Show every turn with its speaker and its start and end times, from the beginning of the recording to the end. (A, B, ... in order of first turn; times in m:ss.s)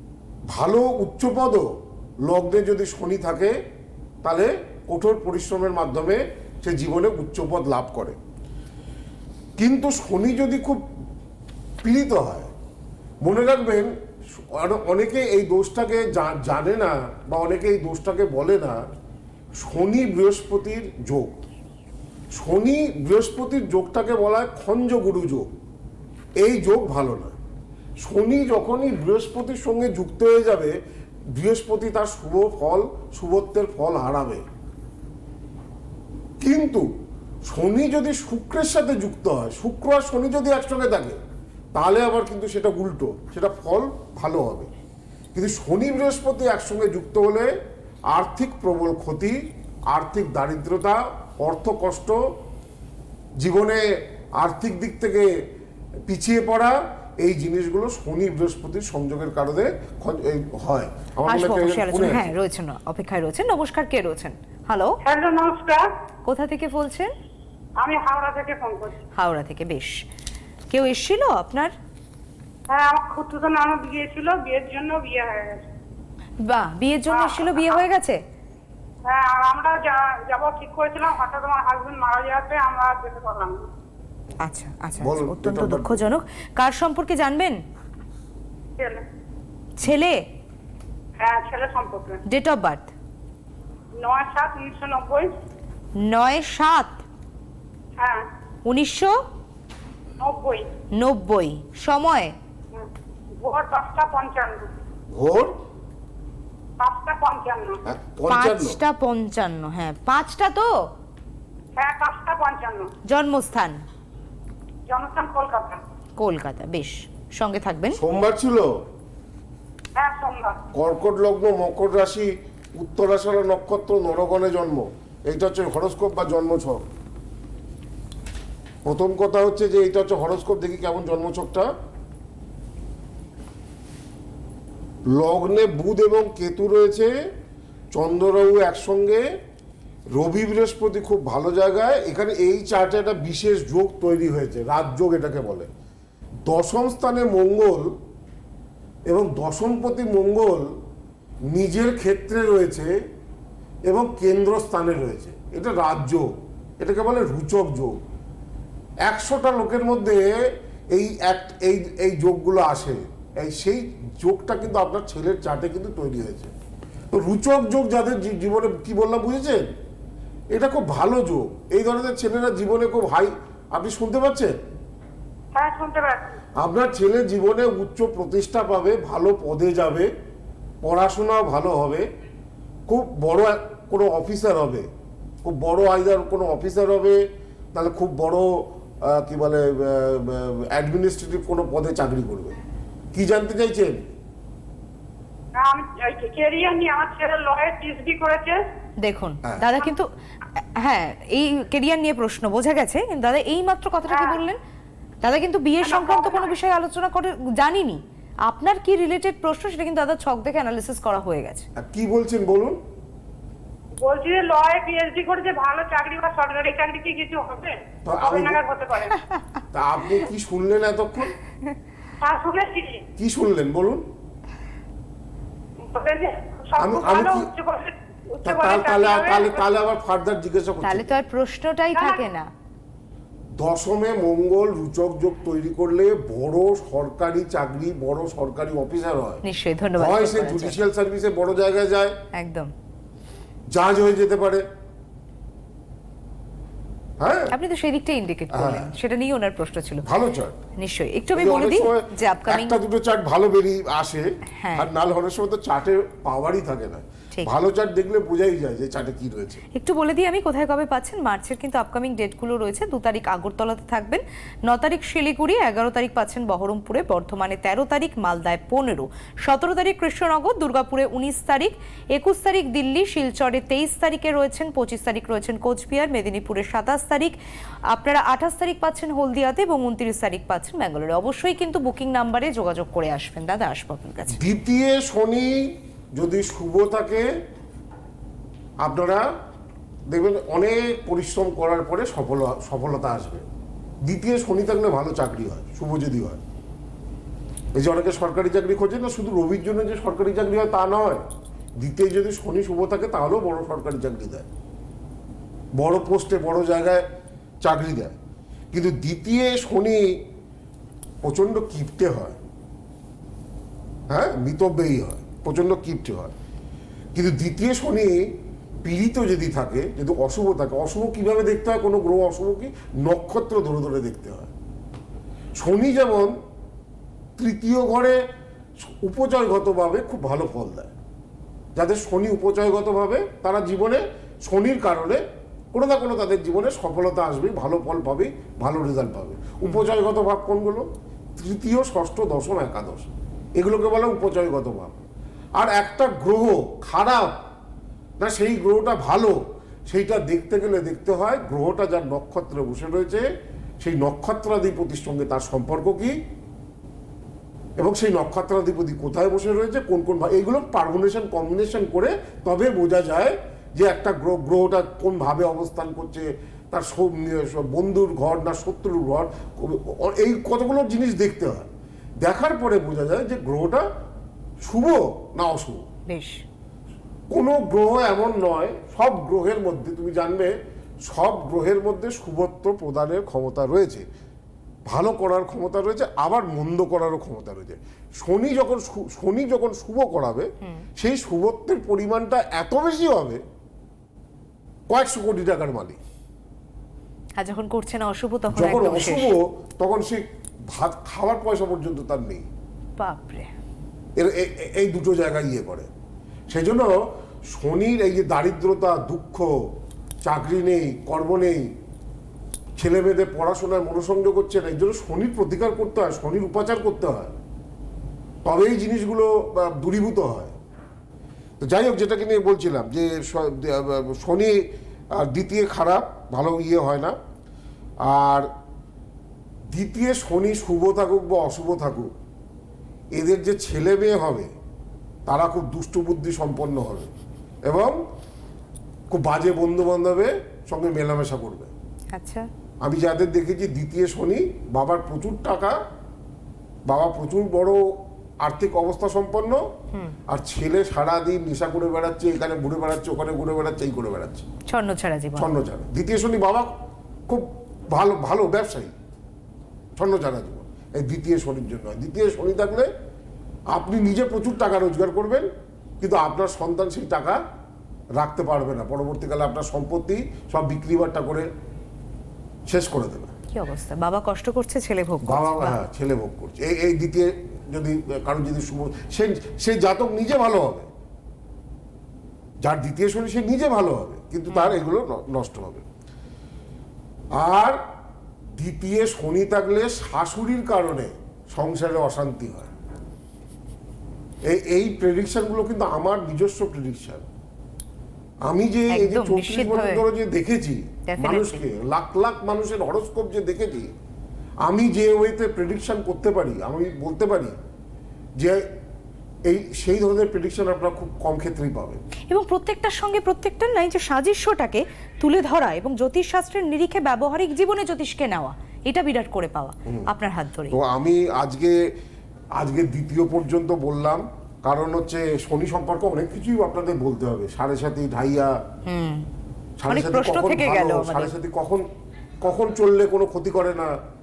0:00.5-0:01.6 A
0:02.2-0:03.5 A
0:04.2-0:08.2 A
0:09.6-0:10.8 A
0:11.8-0:12.5 A
0:13.2-0:18.8 A
0:19.6-0:21.4 A
0:22.3-0:25.5 A
0:26.4-0:27.3 A
0:28.0-0:30.8 A
0:31.3-0:34.4 A
0:36.4-0:36.9 A
0:37.4-0:41.2 A
0:41.7-0:44.7 A
0:45.3-0:47.5 A
0:48.1-0:49.4 A
0:49.9-0:52.2 A
0:53.4-0:55.3 A
0:56.1-1:02.3 A
1:01.3-1:05.0 B
1:05.0-1:05.9 C
1:06.2-1:07.1 B
1:07.8-1:09.0 C
1:09.2-1:10.0 B
1:10.7-1:11.7 B
1:12.7-1:15.6 C
1:16.4-1:18.2 B
1:17.1-1:17.8 C
1:19.0-1:23.6 C
1:24.4-1:27.6 B
1:25.0-1:26.0 A
1:28.8-1:29.0 C
1:29.8-1:30.2 B
1:31.2-1:32.2 C
1:32.3-1:32.9 B
1:34.0-1:35.3 C
1:36.0-1:37.0 B
1:38.0-1:38.2 C
1:38.6-1:39.2 B
1:40.2-1:40.7 C
1:41.0-1:42.3 B
1:42.7-1:44.7 C
1:45.1-1:45.5 A
1:46.8-1:47.8 C
1:47.9-1:48.8 A
1:48.3-1:50.8 B
1:51.8-1:52.9 C
1:53.1-1:53.8 B
1:54.9-1:55.8 C
1:56.2-1:58.0 B
1:57.9-1:58.7 A
2:00.0-2:00.6 C
2:00.7-2:06.8 A
2:08.8-2:11.7 A
2:15.1-2:17.1 A
2:17.9-2:19.2 A
2:20.1-2:25.7 A
2:26.4-2:27.9 A
2:29.1-2:30.7 A
2:31.5-2:32.9 A
2:33.9-2:38.0 A
2:39.0-2:40.3 A
2:40.9-2:46.5 A
2:47.1-2:49.7 A
2:50.5-2:54.5 A
2:55.5-2:56.4 C
2:56.6-3:00.1 A
3:00.8-3:02.0 A
3:02.9-3:04.9 A
3:05.4-3:07.2 A
3:07.7-3:12.5 A
3:13.1-3:14.0 A
3:15.5-3:18.6 C
3:19.0-3:24.6 B
3:24.1-3:24.4 C
3:25.2-3:31.7 B
3:25.8-3:26.5 C
3:31.8-3:32.8 A
3:34.0-3:39.2 C
3:38.0-3:38.6 A
3:39.7-3:41.3 A
3:42.2-3:43.0 C
3:43.2-3:44.0 A
3:45.8-3:49.6 C
3:46.8-3:47.5 A
3:48.4-3:51.2 A
3:50.8-3:52.5 B
3:51.9-3:52.2 C
3:53.6-3:59.4 A
3:59.4-4:00.8 B
4:00.0-4:02.2 A
4:02.3-4:02.7 B
4:03.7-4:04.6 A
4:07.2-4:07.5 A
4:07.5-4:10.0 B
4:08.5-4:08.9 A
4:10.0-4:10.6 A
4:10.8-4:12.8 B
4:11.3-4:19.6 A
4:14.6-4:14.9 B
4:19.7-4:37.4 B
4:37.9-4:44.4 B
4:44.3-4:47.3 A
4:48.8-4:49.2 A
4:50.1-4:53.4 A
4:54.0-4:56.4 A
4:57.7-5:01.2 A
5:01.8-5:04.5 A
5:05.8-5:07.0 A
5:07.6-5:08.2 A
5:08.7-5:10.2 A
5:11.2-5:12.4 A
5:14.1-5:16.3 A
5:17.1-5:24.5 A
5:25.6-5:26.3 A
5:27.4-5:28.2 A
5:28.8-5:30.9 A
5:31.7-5:35.2 A
5:35.7-5:45.0 A
5:45.6-5:47.4 A
5:48.2-5:53.2 A
5:53.8-5:56.2 A
5:57.8-6:13.9 A
6:14.6-6:15.8 A
6:16.1-6:16.4 B
6:17.3-6:24.1 A
6:24.8-6:33.4 A
6:34.9-6:36.0 A
6:37.4-6:39.3 B
6:38.5-6:42.5 A
6:43.0-6:43.5 B
6:44.2-6:45.9 A
6:46.5-6:49.6 A
6:50.2-6:51.7 A
6:52.8-6:57.3 A
6:58.4-7:00.5 A
7:01.6-7:04.6 A
7:05.1-7:07.2 A
7:08.0-7:08.5 A
7:09.7-7:12.1 A
7:13.1-7:14.5 A
7:15.3-7:17.1 A
7:17.7-7:17.9 A
7:19.1-7:21.7 A
7:22.1-7:22.5 B
7:22.8-7:25.8 A
7:26.9-7:29.6 A
7:30.3-7:34.4 A
7:34.7-7:35.5 B
7:35.4-7:36.7 A
7:37.3-7:38.9 A
7:40.0-7:42.9 A
7:43.7-7:45.5 A
7:46.0-7:47.4 A
7:48.2-7:51.5 A
7:52.7-7:53.3 A
7:53.5-7:55.8 B
7:55.2-8:00.9 A
8:02.6-8:05.8 A
8:04.5-8:04.8 B
8:07.3-8:07.8 A
8:08.6-8:12.7 A
8:14.4-8:17.2 A
8:18.5-8:23.9 A
8:18.9-8:20.0 B
8:21.1-8:21.6 B
8:24.6-8:27.5 A
8:28.4-8:28.7 A
8:29.4-8:32.0 A
8:32.3-8:40.8 B
8:40.7-8:41.8 A
8:42.6-8:48.6 A
8:48.8-8:49.2 B
8:49.8-8:51.8 A
8:49.9-8:51.3 B
8:52.4-8:53.9 A